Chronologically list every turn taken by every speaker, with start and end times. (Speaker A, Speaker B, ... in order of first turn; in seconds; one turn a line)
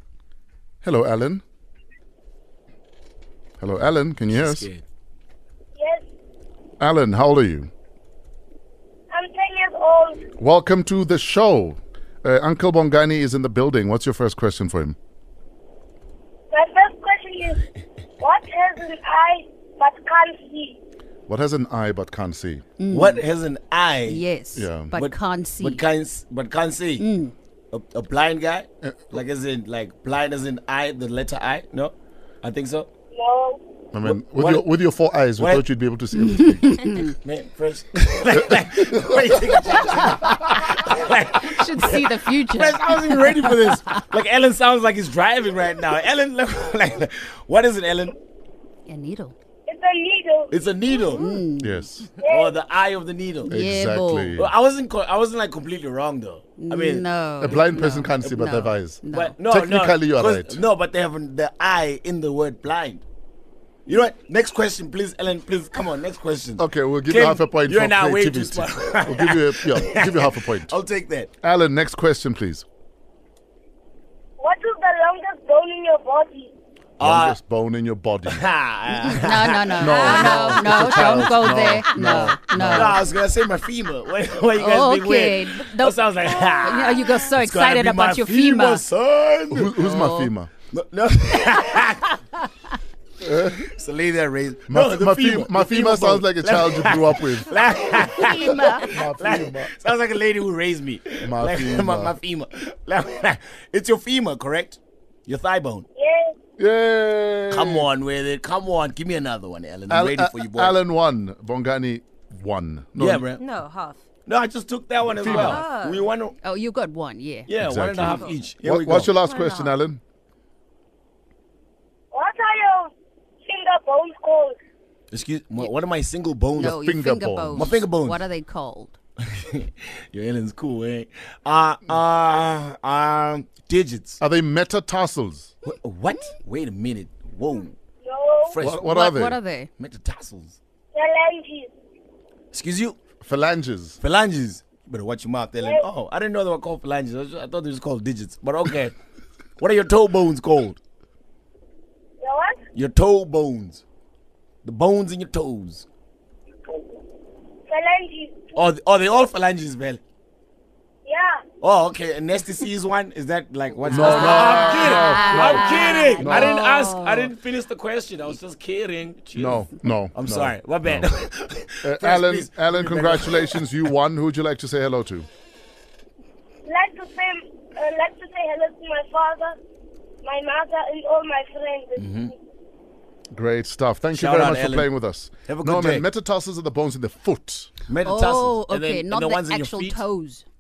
Speaker A: 0.8-1.4
Speaker A: 3.6-4.7
Speaker B: 4.3-4.8
Speaker C: 5.8-6.0
Speaker A: 6.8-7.7
Speaker C: 9.1-10.2
Speaker A: 10.4-14.9
Speaker C: 16.5-17.6
Speaker C: 18.2-20.8
Speaker A: 21.3-22.6
Speaker D: 22.8-23.2
Speaker B: 22.9-24.2
Speaker D: 24.1-25.8
Speaker A: 24.5-24.9
Speaker B: 24.9-27.1
Speaker D: 27.0-27.3
Speaker B: 27.7-32.9
Speaker A: 28.8-29.2
Speaker C: 33.1-33.6
Speaker A: 33.9-37.0
Speaker B: 34.0-34.7
Speaker B: 35.4-35.6
Speaker D: 36.2-37.0
Speaker B: 37.0-48.2
Speaker D: 41.4-43.8
Speaker D: 48.9-49.3
Speaker C: 49.7-50.5
Speaker B: 50.5-51.3
Speaker D: 51.1-51.9
Speaker A: 51.6-52.1
Speaker C: 52.2-52.6
Speaker B: 52.2-53.5
Speaker D: 53.5-54.4
Speaker A: 53.5-54.5
Speaker B: 54.4-58.6
Speaker D: 56.6-59.3
Speaker A: 57.4-60.6
Speaker B: 59.1-63.0
Speaker B: 63.9-71.3
Speaker A: 66.6-70.7
Speaker A: 71.4-72.6
Speaker C: 74.4-76.5
Speaker B: 77.0-77.4
Speaker A: 77.0-78.4
Speaker B: 78.3-80.9
Speaker D: 79.0-83.0
Speaker A: 79.8-83.0
Speaker B: 82.6-89.9
Speaker D: 84.5-88.8
Speaker A: 89.5-90.5
Speaker D: 89.8-90.3
Speaker B: 90.7-92.5
Speaker A: 93.2-93.6
Speaker B: 93.6-105.9
Speaker A: 94.7-97.5
Speaker D: 98.0-98.9
Speaker A: 98.9-99.7
Speaker A: 101.2-102.1
Speaker C: 106.0-106.3
Speaker A: 106.6-107.8
Speaker B: 107.5-110.8
Speaker A: 109.9-113.2
Speaker B: 113.0-113.4
Speaker E: 113.4-114.0
Speaker B: 114.2-116.3
Speaker A: 115.1-115.6
Speaker E: 115.2-116.1
Speaker D: 116.4-117.5
Speaker B: 117.5-119.2
Speaker A: 117.6-120.0
Speaker E: 118.0-118.4
Speaker E: 119.2-119.7
Speaker C: 122.1-122.9
Speaker C: 123.4-124.6
Speaker B: 125.1-126.8
Speaker A: 126.6-127.8
Speaker D: 126.6-129.0
Speaker B: 127.5-128.2
Speaker B: 129.3-134.2
Speaker A: 134.2-135.5
Speaker B: 135.6-137.8
Speaker C: 138.0-138.6
Speaker B: 138.4-138.9
Speaker A: 138.6-139.4
Speaker D: 138.8-139.7
Speaker B: 139.8-140.6
Speaker C: 140.9-141.7
Speaker B: 142.5-143.0
Speaker A: 143.2-144.0
Speaker B: 144.0-148.9
Speaker C: 145.6-145.9
Speaker B: 149.6-150.8
Speaker C: 152.2-152.6
Speaker B: 152.7-153.8
Speaker B: 154.6-155.8
Speaker C: 157.7-158.5
Speaker B: 158.5-160.0
Speaker C: 161.1-161.4
Speaker B: 161.6-173.9
Speaker A: 163.8-166.6
Speaker D: 163.9-167.3
Speaker A: 169.3-171.1
Speaker A: 171.8-175.3
Speaker C: 176.7-179.6
Speaker C: 180.2-182.2
Speaker B: 182.0-182.3
Speaker A: 183.3-187.7
Speaker B: 184.1-184.9
Speaker B: 185.4-186.1
Speaker B: 187.9-190.0
Speaker D: 188.0-190.4